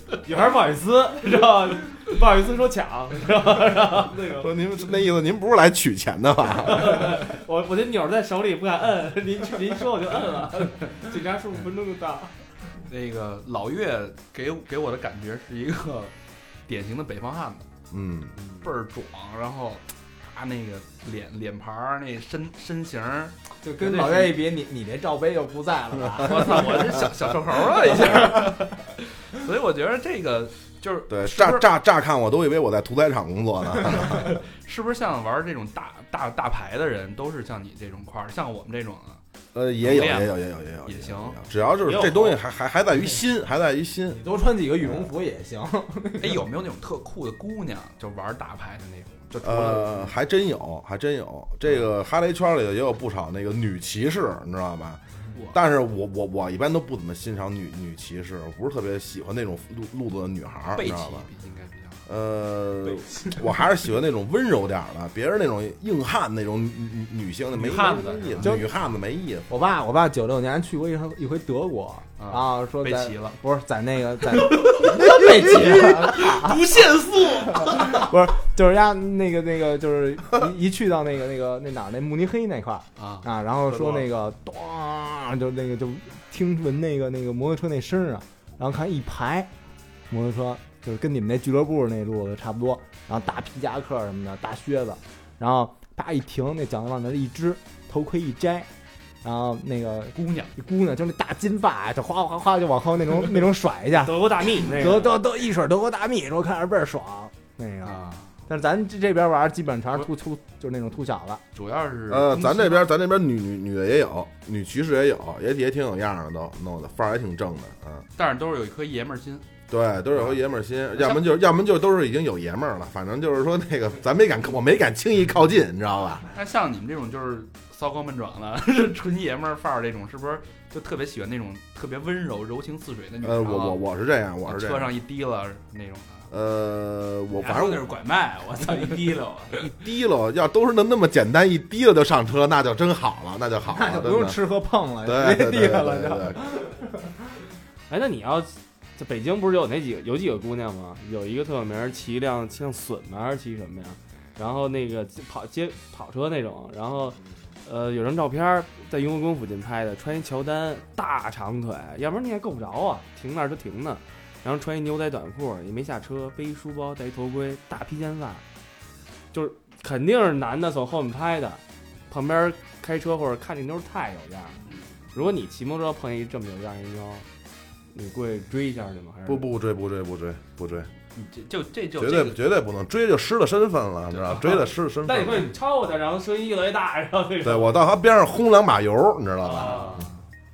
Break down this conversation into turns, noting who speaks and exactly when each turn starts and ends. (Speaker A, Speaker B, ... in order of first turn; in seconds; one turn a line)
Speaker A: 0.2-4.5
Speaker B: 4.3-7.2
Speaker A: 6.7-12.3
Speaker C: 12.8-16.1
Speaker C: 16.7-17.7
Speaker B: 17.9-18.4
Speaker A: 18.4-18.7
Speaker C: 18.6-24.4
Speaker D: 23.6-26.9
Speaker C: 26.2-31.6
Speaker B: 27.0-27.2
Speaker D: 27.9-28.6
Speaker B: 31.1-34.4
Speaker C: 34.0-39.2
Speaker B: 39.5-44.2
Speaker C: 39.8-40.3
Speaker C: 40.9-41.4
Speaker A: 41.9-42.4
Speaker D: 44.1-46.5
Speaker C: 46.2-50.1
Speaker B: 49.4-61.3
Speaker C: 55.3-55.6
Speaker C: 60.7-62.0
Speaker B: 62.1-69.5
Speaker C: 67.5-68.6
Speaker D: 68.4-68.7
Speaker D: 69.5-76.7
Speaker C: 72.2-73.4
Speaker C: 74.3-78.1
Speaker D: 77.5-89.5
Speaker C: 83.0-84.1
Speaker D: 90.1-98.7
Speaker D: 99.2-111.4
Speaker C: 100.1-100.5
Speaker A: 104.0-105.1
Speaker C: 107.8-108.3
Speaker C: 111.5-112.9
Speaker B: 112.1-118.1
Speaker C: 118.2-119.5
Speaker B: 119.7-126.3
Speaker C: 120.1-120.4
Speaker C: 121.0-121.3
Speaker C: 126.3-133.8
Speaker B: 133.2-134.9
Speaker C: 134.4-136.3
Speaker B: 136.3-137.9
Speaker E: 137.3-139.7
Speaker B: 139.6-144.4
Speaker D: 143.7-147.4
Speaker B: 145.0-146.4
Speaker A: 147.9-168.4
Speaker A: 169.3-174.6
Speaker A: 175.1-177.3
Speaker A: 177.9-179.5
Speaker B: 179.3-180.9
Speaker C: 181.1-182.4
Speaker B: 182.0-185.5
Speaker C: 184.1-184.6
Speaker A: 184.5-187.8
Speaker B: 187.4-190.1
Speaker A: 189.5-190.0
Speaker C: 189.5-190.2